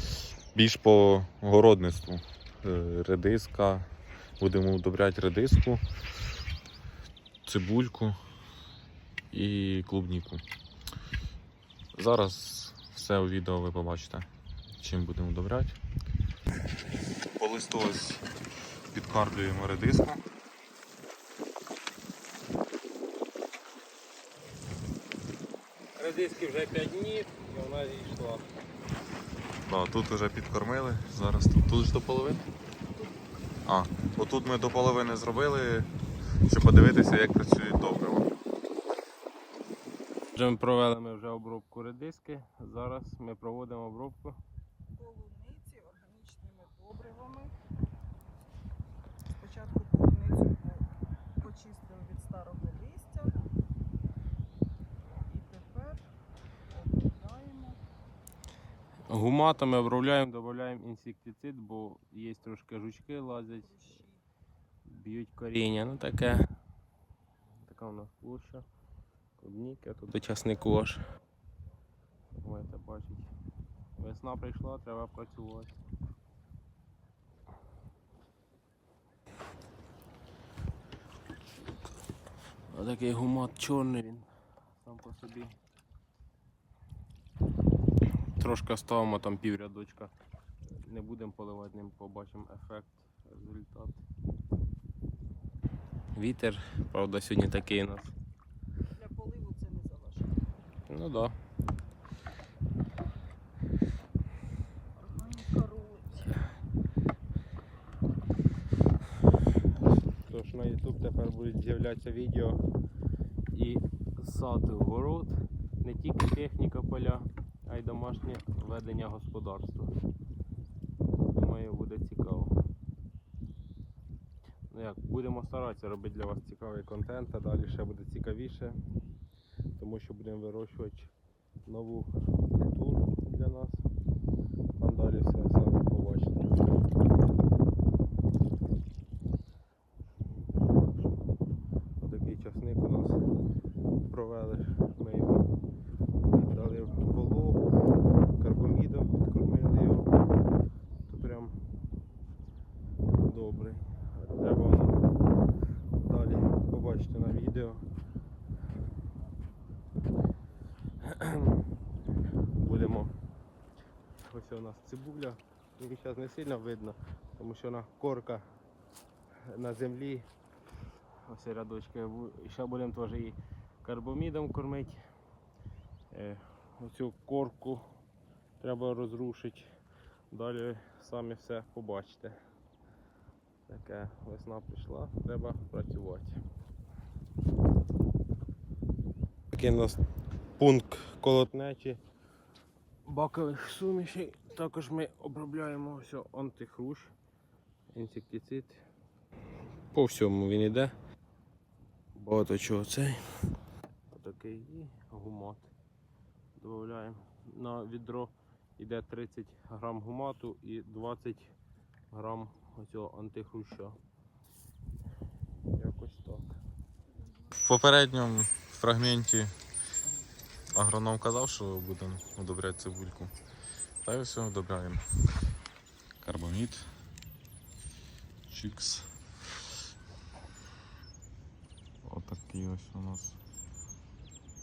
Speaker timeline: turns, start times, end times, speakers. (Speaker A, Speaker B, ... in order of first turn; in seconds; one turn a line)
Speaker A: 0.5-3.9
Speaker A: 4.4-5.8
Speaker A: 7.4-8.2
Speaker A: 9.3-10.4
Speaker A: 11.9-14.2
Speaker A: 14.8-15.8
Speaker A: 17.3-18.2
Speaker A: 18.9-20.2
Speaker B: 26.0-28.4
Speaker A: 29.6-32.4
Speaker A: 33.6-35.9
Speaker A: 36.4-38.3
Speaker B: 40.4-44.4
Speaker C: 44.9-47.5
Speaker C: 49.4-53.4
Speaker C: 55.3-56.1
Speaker C: 57.0-57.8
Speaker B: 59.1-64.0
Speaker C: 63.7-64.1
Speaker B: 64.8-66.5
Speaker B: 67.6-68.7
Speaker B: 69.4-71.0
Speaker B: 72.3-73.3
Speaker B: 74.0-75.7
Speaker B: 82.7-84.3
Speaker B: 84.8-85.6
Speaker B: 88.4-90.1
Speaker B: 90.7-94.0
Speaker B: 96.1-98.2
Speaker C: 98.9-100.4
Speaker B: 100.9-101.3
Speaker C: 105.0-106.4
Speaker B: 110.2-112.6
Speaker B: 113.5-119.9
Speaker B: 121.3-122.5
Speaker B: 124.7-128.8
Speaker B: 129.8-131.1
Speaker B: 131.7-133.8
Speaker B: 134.8-136.6
Speaker B: 140.2-141.1
Speaker B: 142.0-143.3
Speaker B: 144.0-145.5
Speaker B: 146.3-147.8
Speaker B: 148.4-150.2
Speaker B: 151.1-151.6
Speaker B: 153.1-155.0
Speaker B: 156.0-157.9
Speaker B: 161.0-161.7
Speaker B: 162.6-163.1
Speaker B: 164.2-168.4
Speaker B: 169.4-170.2
Speaker B: 171.2-175.1
Speaker B: 176.1-177.9
Speaker B: 178.6-179.7
Speaker B: 180.3-182.4
Speaker B: 183.7-186.4
Speaker B: 189.5-190.0
Speaker B: 190.6-192.0
Speaker B: 193.0-197.1
Speaker B: 197.9-198.9
Speaker B: 199.9-200.9
Speaker B: 202.1-203.2
Speaker B: 204.1-205.7
Speaker B: 206.6-211.5
Speaker B: 212.1-214.0
Speaker B: 215.7-216.5
Speaker A: 217.5-219.5
Speaker A: 220.7-223.3
Speaker A: 224.0-225.0
Speaker A: 226.2-226.9
Speaker A: 228.5-229.1
Speaker A: 232.0-233.4